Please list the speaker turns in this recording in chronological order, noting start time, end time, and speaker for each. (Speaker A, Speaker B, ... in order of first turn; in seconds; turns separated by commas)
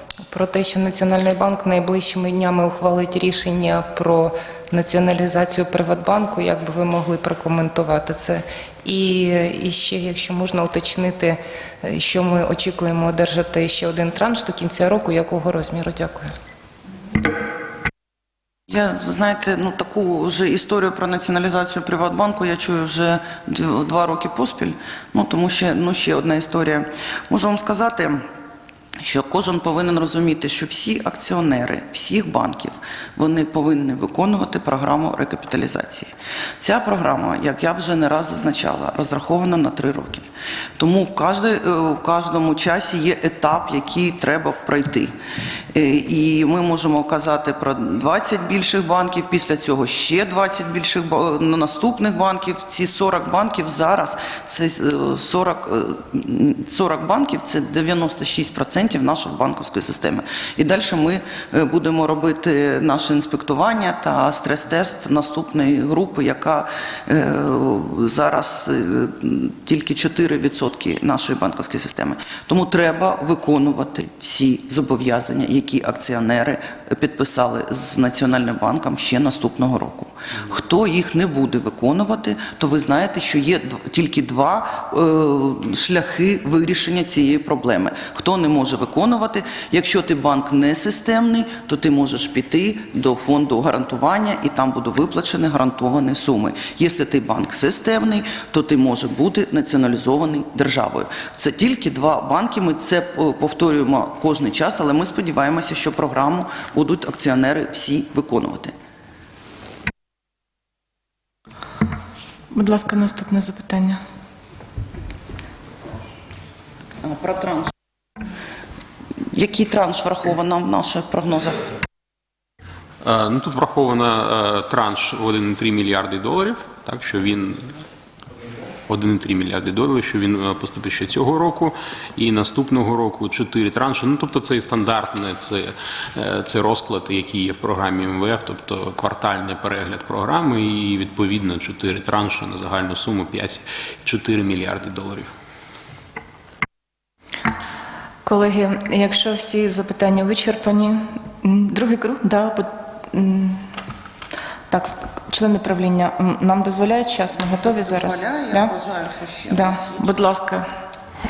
Speaker A: 0.3-16.3, Speaker B: 18.7-28.2, Speaker B: 29.0-45.1, Speaker B: 45.7-108.7, Speaker C: 112.5-114.0, Speaker B: 117.0-117.7, Speaker B: 119.3-121.7, Speaker D: 123.0-127.8, Speaker D: 128.9-145.3, Speaker C: 148.2-153.6, Speaker C: 154.7-158.7, Speaker B: 157.7-160.1, Speaker C: 159.5-160.7